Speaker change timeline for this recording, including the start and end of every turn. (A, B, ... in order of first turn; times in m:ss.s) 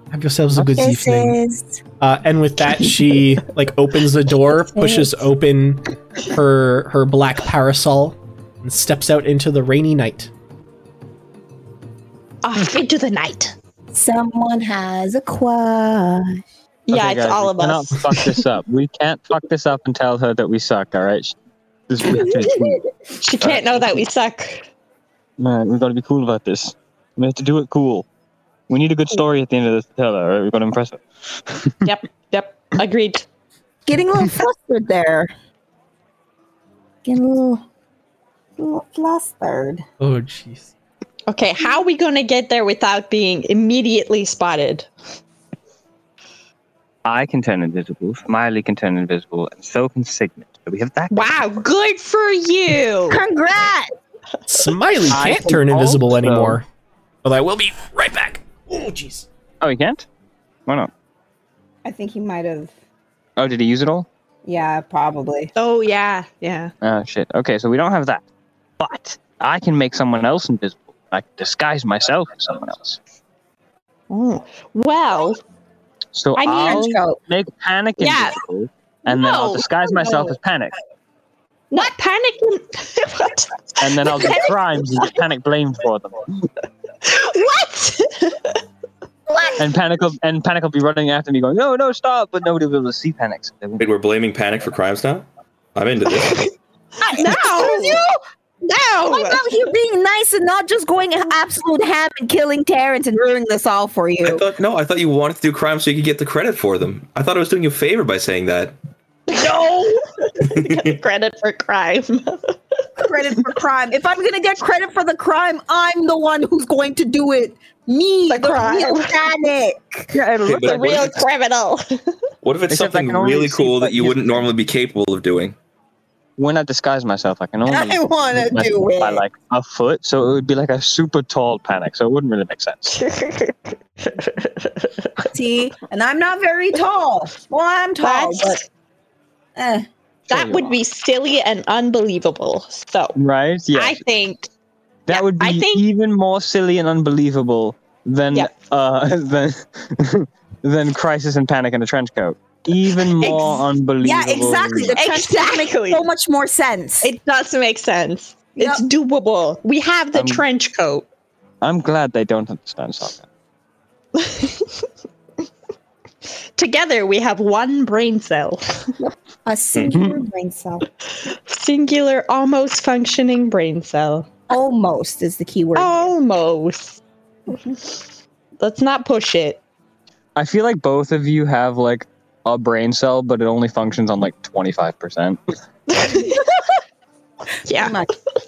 0:00.1-0:01.4 A
0:00.6-0:01.8 B
0:02.0-0:10.3 A
0:04.5-0:05.1 B
0:12.4-0:13.5 C
0:13.9-0:16.4 B
0:16.9-0:18.0 C
0:16.9-0:21.4 D
0:21.9-0:22.8 D
0:23.2-0:24.7 C
0:23.4-0:23.7 E
0:25.4-0:28.1 D
0:28.7-0:31.9 D
0:31.8-0:33.2 C
0:33.9-0:35.3 B
0:37.0-0:37.6 B
0:38.6-0:39.8 B
0:40.0-0:40.7 A
0:41.3-0:44.9 C
0:47.0-0:51.5 D
0:51.1-0:53.2 C
0:53.1-0:53.9 B
0:54.5-0:56.6 A
0:55.1-0:56.6 D
0:57.2-0:59.3 A
0:59.6-1:00.1 D
1:00.6-1:00.9 D
1:01.8-1:02.7 B
1:03.4-1:04.1 D
1:04.4-1:05.5 B
1:05.6-1:06.7 C
1:06.8-1:08.2 D
1:08.8-1:13.0 D
1:14.1-1:15.4 C
1:16.1-1:20.7 D
1:16.4-1:17.0 C
1:16.5-1:17.2 B
1:18.0-1:18.4 C
1:19.1-1:20.2 C
1:21.7-1:24.5 C
1:23.8-1:26.5 D
1:27.0-1:28.6 C
1:29.3-1:29.7 B
1:29.6-1:33.9 D
1:33.8-1:36.4 E
1:36.2-1:36.5 C
1:37.0-1:38.1 B
1:37.1-1:39.4 C
1:39.1-1:44.4 B
1:44.2-1:48.7 E
1:49.3-1:52.8 C
1:49.3-1:50.0 B
1:50.5-1:51.0 E
1:53.0-2:00.1 B
1:58.3-1:59.2 C
2:00.1-2:01.2 D
2:00.4-2:01.2 E
2:00.5-2:02.0 C
2:02.4-2:05.6 E
2:02.7-2:04.4 D
2:06.4-2:13.0 D
2:07.6-2:09.2 B
2:12.9-2:15.3 C
2:15.2-2:18.6 B
2:18.0-2:18.6 C
2:19.6-2:19.9 B
2:20.3-2:23.2 C
2:20.3-2:20.8 D
2:23.2-2:24.0 D
2:23.7-2:24.5 C
2:25.1-2:35.0 D
2:25.1-2:25.8 C
2:33.1-2:33.6 C
2:34.0-2:37.1 B
2:34.9-2:36.0 C
2:37.0-2:41.1 C
2:38.6-2:38.8 B
2:40.1-2:40.4 D
2:41.6-2:43.2 D
2:44.2-2:44.7 C
2:46.6-2:48.9 C
2:49.4-2:50.8 B
2:49.9-2:50.2 D
2:51.2-2:54.3 C
2:54.5-2:56.1 B
2:55.7-2:57.0 C
2:58.6-2:59.6 C
3:00.4-3:05.4 D
3:05.9-3:06.8 C
3:07.6-3:08.0 C
3:07.7-3:08.1 B